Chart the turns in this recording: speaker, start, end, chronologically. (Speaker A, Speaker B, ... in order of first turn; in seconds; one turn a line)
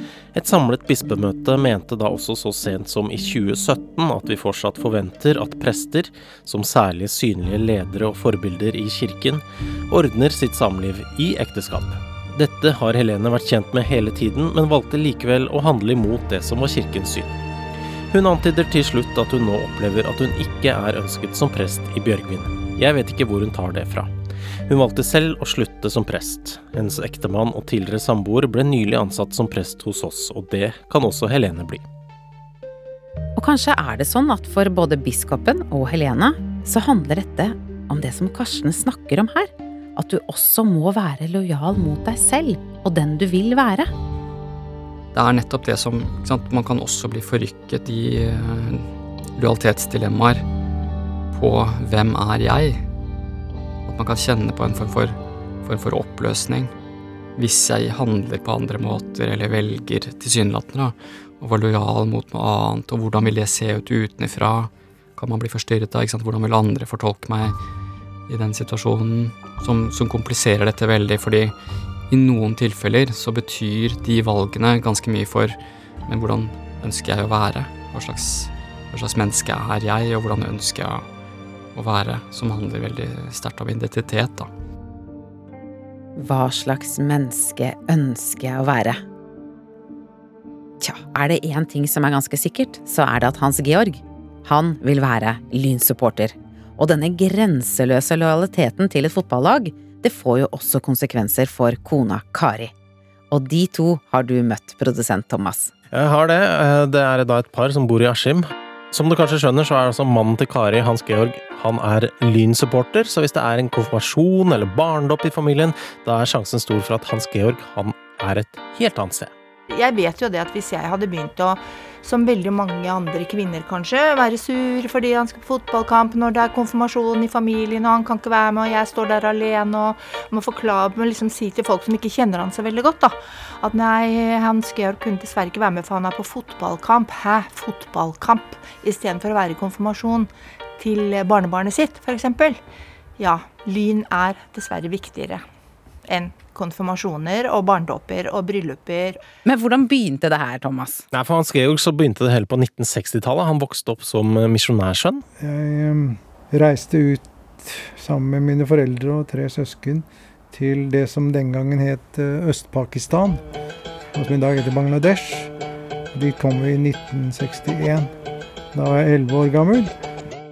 Speaker A: 0.3-17.4
Speaker A: 18.1-24.1
Speaker A: 24.7-31.8
Speaker B: 33.4-43.9
Speaker C: 45.1-50.4
Speaker C: 51.3-52.8
Speaker C: 53.9-56.7
Speaker C: 57.4-67.5
Speaker C: 68.3-71.5
Speaker C: 72.1-81.0
Speaker C: 81.7-84.5
Speaker B: 86.2-89.0
Speaker B: 90.8-102.7
Speaker B: 103.3-105.7
Speaker A: 105.9-119.3
Speaker D: 119.7-142.6
Speaker D: 143.2-145.4
Speaker D: 146.1-149.2
Speaker B: 149.4-151.0
Speaker A: 151.1-155.2
Speaker E: 155.4-163.4
Speaker E: 164.1-165.5
Speaker E: 166.1-168.1
Speaker E: 168.7-169.9